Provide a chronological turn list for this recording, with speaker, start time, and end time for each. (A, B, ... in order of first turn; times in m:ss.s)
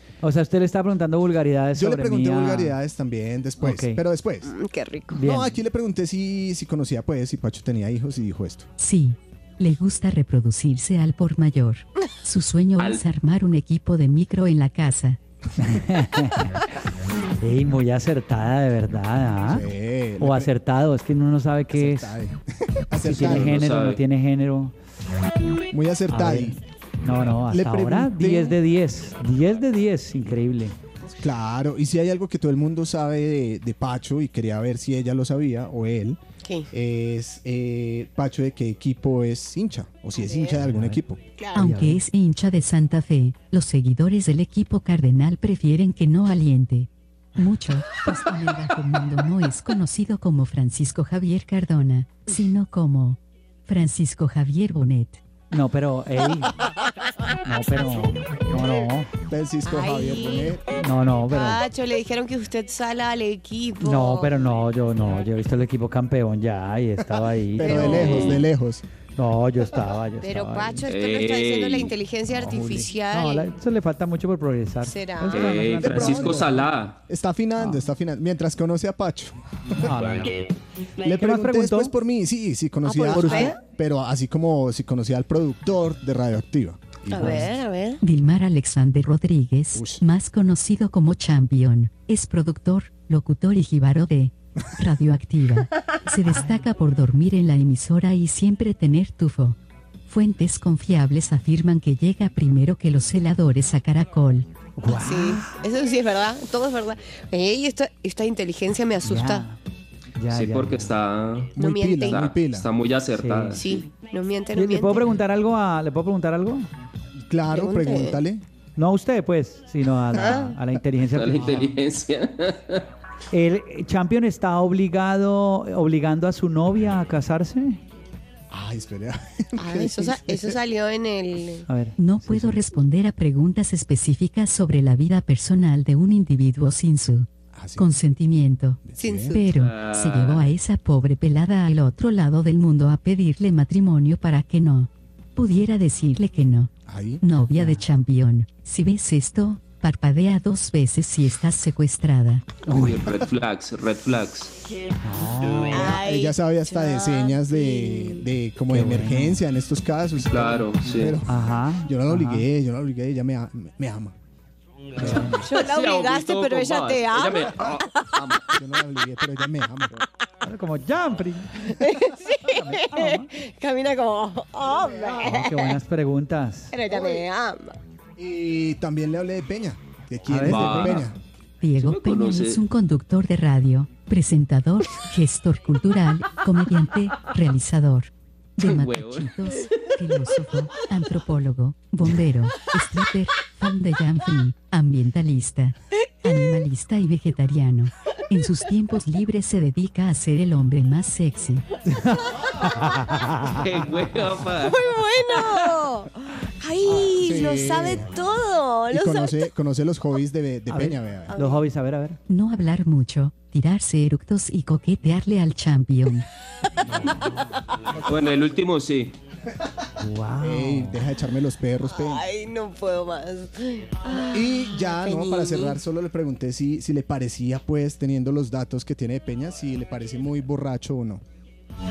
0:00.2-0:02.8 A
0:01.7-0:04.5 B
0:03.6-0:04.0 A
0:04.4-0:05.3 C
0:05.1-0:05.5 A
0:05.2-0:08.7 B
0:08.8-0:15.2 D
0:12.8-0:13.0 E
0:15.6-0:16.6 A
0:17.4-0:19.7 A
0:19.4-0:20.5 B
0:20.2-0:22.2 A
0:21.7-0:23.6 B
0:23.0-0:24.7 A
0:23.1-0:24.0 E
0:25.7-0:26.6 B
0:26.1-0:30.7 A
0:27.1-0:28.6 B
0:31.2-0:36.2 B
0:36.4-0:36.7 C
0:36.7-0:41.2 B
0:40.1-0:40.6 C
0:40.6-0:41.0 A
0:41.4-0:41.8 C
0:41.5-0:55.2 D
0:41.6-0:42.0 A
0:55.5-0:56.5 A
0:57.4-0:59.1 A
0:59.2-1:00.6 B
0:59.6-1:00.6 C
1:00.8-1:01.6 A
1:01.3-1:04.3 C
1:03.8-1:08.3 A
1:07.5-1:08.8 B
1:07.6-1:08.4 C
1:07.9-1:08.4 E
1:09.2-1:10.8 A
1:10.2-1:13.5 C
1:10.9-1:11.9 E
1:12.4-1:16.5 A
1:14.8-1:15.5 C
1:15.3-1:17.0 E
1:15.8-1:19.4 B
1:19.8-1:20.4 A
1:21.0-1:27.5 B
1:21.0-1:21.9 A
1:22.8-1:23.6 C
1:23.0-1:23.6 A
1:27.1-1:28.0 C
1:27.2-1:27.5 A
1:28.0-1:39.6 D
1:29.7-1:30.0 B
1:36.2-1:36.6 A
1:40.1-1:44.5 D
1:44.8-1:45.5 A
1:44.9-1:49.4 C
1:49.0-1:49.6 A
1:50.2-1:50.9 A
1:50.3-1:53.9 E
1:51.5-1:52.7 B
1:51.6-1:52.2 C
1:53.2-1:53.6 A
1:53.6-1:55.1 C
1:54.5-1:56.7 A
1:57.2-1:58.4 B
1:57.5-1:58.2 C
1:58.8-2:01.5 A
2:00.1-2:00.5 C
2:01.1-2:02.9 E
2:01.4-2:01.7 B
2:03.3-2:07.8 A
2:08.5-2:10.6 B
2:09.6-2:11.6 C
2:11.7-2:12.6 A
2:12.0-2:32.6 D
2:17.5-2:17.9 B
2:18.8-2:19.4 B
2:19.0-2:19.4 C
2:19.4-2:20.5 E
2:26.8-2:27.2 B
2:27.5-2:27.8 A
2:32.6-2:34.5 E
2:35.0-2:36.0 A
2:35.7-2:38.3 C
2:35.8-2:44.1 B
2:38.7-2:39.4 A
2:40.3-2:41.2 E
2:41.3-2:42.5 A
2:45.0-2:48.4 E
2:45.0-2:45.3 A
2:45.0-2:45.4 B
2:45.2-2:48.6 C
2:48.4-2:50.0 B
2:50.4-2:51.8 A
2:51.6-2:55.8 C
2:52.6-2:53.3 A
2:54.7-2:55.5 B
2:55.2-2:56.7 A
2:56.7-2:57.8 C
2:56.9-2:57.2 B
2:58.2-3:01.2 B
3:00.3-3:01.0 A
3:00.4-3:01.1 E
3:01.6-3:21.7 D
3:01.8-3:02.6 E
3:08.6-3:09.9 E
3:21.9-3:23.6 A
3:23.5-3:24.9 E
3:24.6-3:29.5 C
3:27.1-3:28.1 B
3:28.9-3:31.3 B
3:30.7-3:32.2 A
3:31.3-3:31.6 C
3:32.3-3:36.3 D
3:36.8-3:37.3 B
3:36.9-3:37.5 C
3:38.0-3:39.1 E
3:40.0-3:41.0 A
3:40.4-3:42.2 B
3:41.8-3:45.8 C
3:44.3-3:51.2 B